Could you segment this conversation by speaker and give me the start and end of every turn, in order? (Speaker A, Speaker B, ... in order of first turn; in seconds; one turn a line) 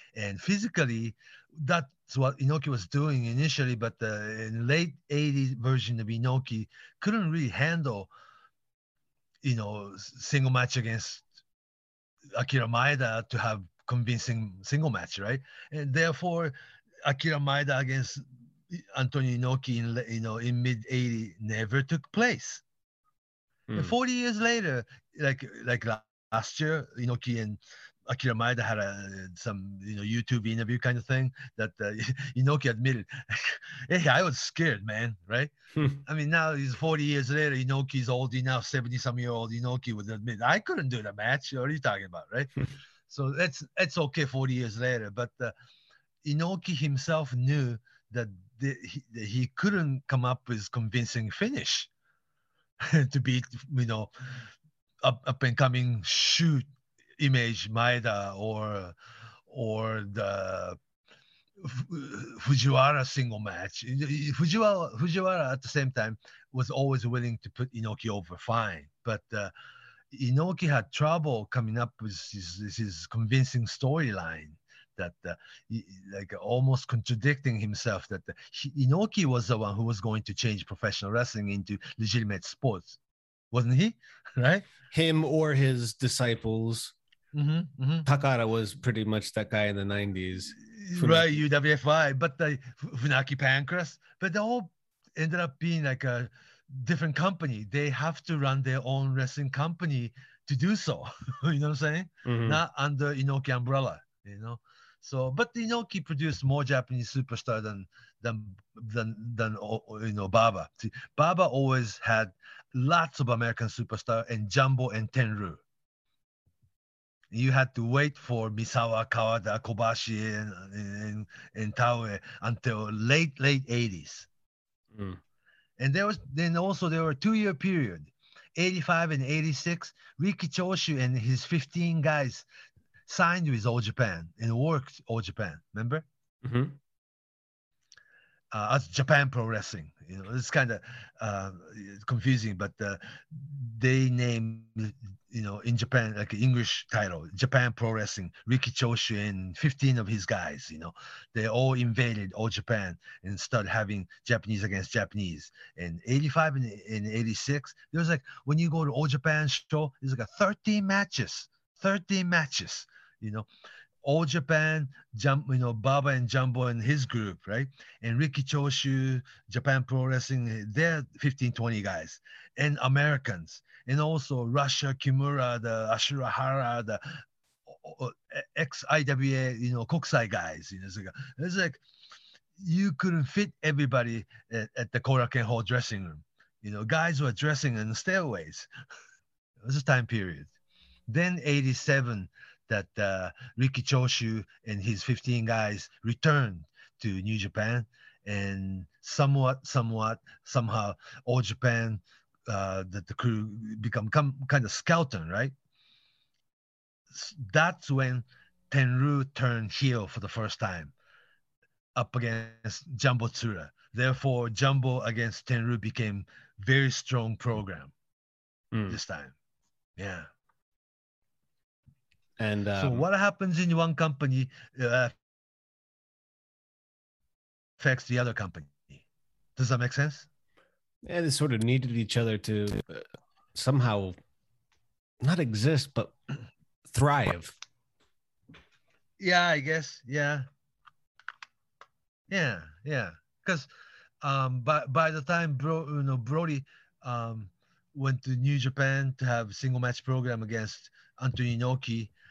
Speaker A: 0.1-8.1
Speaker A: 9.4-11.2
Speaker A: 12.3-22.6
Speaker B: 23.7-24.0
Speaker A: 23.7-35.5
Speaker B: 35.8-36.0
Speaker A: 36.1-42.5
Speaker A: 43.1-45.5
Speaker A: 46.2-51.9
Speaker A: 52.8-54.4
Speaker A: 55.0-58.9
Speaker A: 59.5-60.8
Speaker A: 61.6-69.5
Speaker A: 70.1-83.0
Speaker A: 83.5-84.7
Speaker B: 84.9-86.9
Speaker A: 87.3-88.1
Speaker B: 88.1-91.4
Speaker A: 90.7-115.6
Speaker B: 102.2-102.6
Speaker A: 117.3-124.3
Speaker B: 124.9-125.2
Speaker A: 125.8-132.4
Speaker A: 133.1-136.1
Speaker B: 136.4-136.8
Speaker A: 138.5-163.5
Speaker A: 164.0-181.8
Speaker A: 182.6-188.7
Speaker A: 189.6-190.5
Speaker A: 191.1-205.5
Speaker A: 207.1-210.9
Speaker A: 212.0-217.9
Speaker B: 218.7-219.0
Speaker A: 218.9-219.3
Speaker A: 220.0-220.3
Speaker B: 222.4-223.1
Speaker A: 222.8-225.1
Speaker A: 227.8-229.0
Speaker A: 229.6-230.3
Speaker B: 231.0-234.2
Speaker B: 235.2-236.2
Speaker B: 236.9-237.6
Speaker A: 239.2-240.5
Speaker A: 242.3-243.7
Speaker A: 244.2-252.1